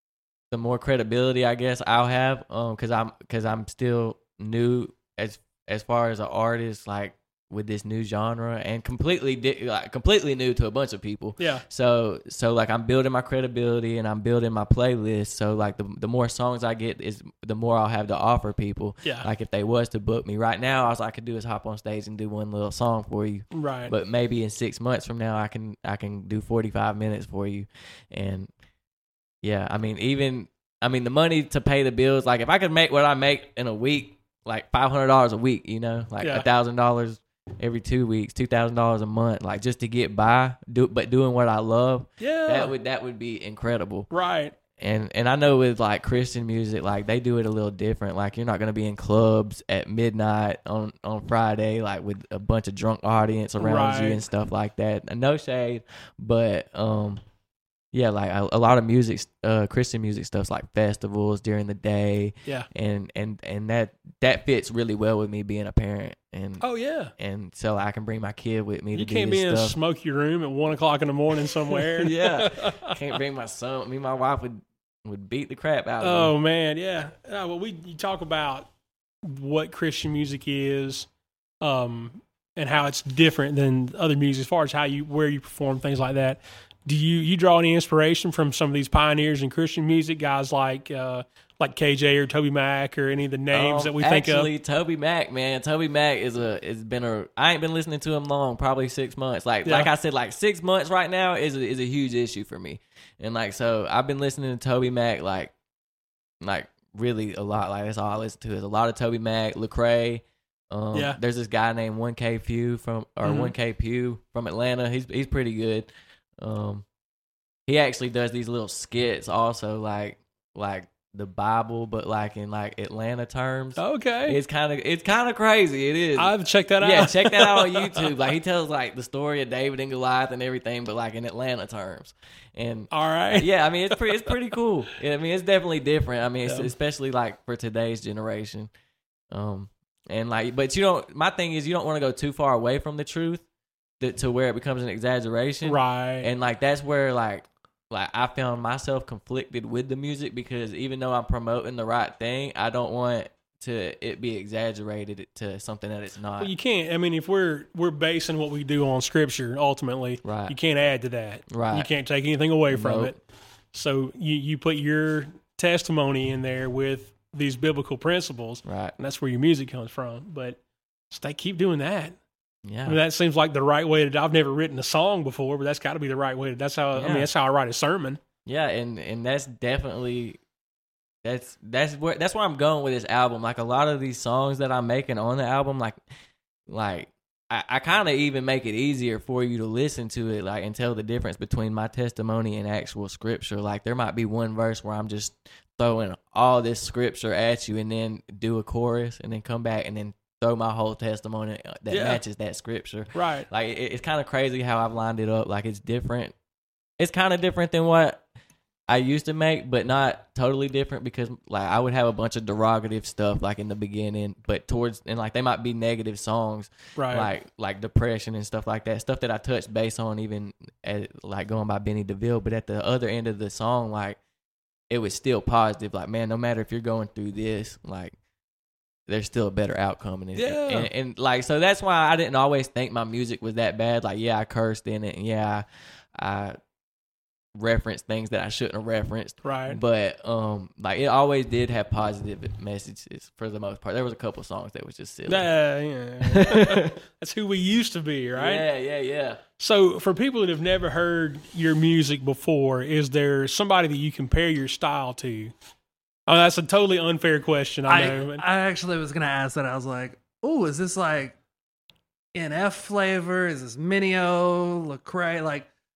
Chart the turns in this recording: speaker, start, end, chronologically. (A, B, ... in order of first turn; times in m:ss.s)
0:00.5-0:28.5 A
0:11.4-0:11.6 B
0:23.5-0:23.9 B
0:29.4-0:44.1 A
0:42.2-0:42.7 B
0:44.1-0:44.6 B
0:44.8-0:57.2 A
0:53.6-0:54.2 B
0:57.9-1:09.8 A
1:06.6-1:07.1 B
1:08.9-1:12.9 B
1:11.7-1:16.3 A
1:16.0-1:18.7 B
1:19.2-1:21.1 B
1:21.6-1:34.5 B
1:33.5-1:45.5 A
1:39.7-1:39.9 B
1:46.4-1:56.8 A
1:53.2-1:53.5 B
1:57.7-2:18.7 A
2:03.8-2:04.4 B
2:06.2-2:08.1 B
2:12.9-2:13.5 B
2:16.4-2:16.7 B
2:19.3-2:23.4 A
2:24.0-2:36.5 A
2:25.6-2:26.3 B
2:36.4-2:43.2 B
2:40.2-2:40.6 A
2:41.5-2:41.9 A
2:42.7-2:43.2 A
2:43.7-2:50.6 B
2:48.6-2:49.0 A
2:51.1-2:52.2 B
2:52.6-2:53.0 A
2:52.8-2:58.2 B
2:57.0-2:57.3 A
2:58.5-3:00.4 A
3:01.2-3:06.0 A
3:06.7-3:26.4 A
3:21.9-3:22.2 B
3:23.1-3:23.5 B
3:27.0-3:28.2 A
3:28.9-3:44.2 A
3:37.0-3:37.3 B
3:44.9-3:48.2 A
3:49.1-3:56.6 A
3:50.4-3:50.9 B
3:57.6-4:05.5 A
3:59.4-3:59.8 B
4:05.3-4:08.6 B
4:06.2-4:06.9 A
4:08.4-4:09.4 A
4:09.6-4:15.5 B
4:16.3-4:18.4 B
4:17.9-4:21.4 C
4:22.3-4:25.7 C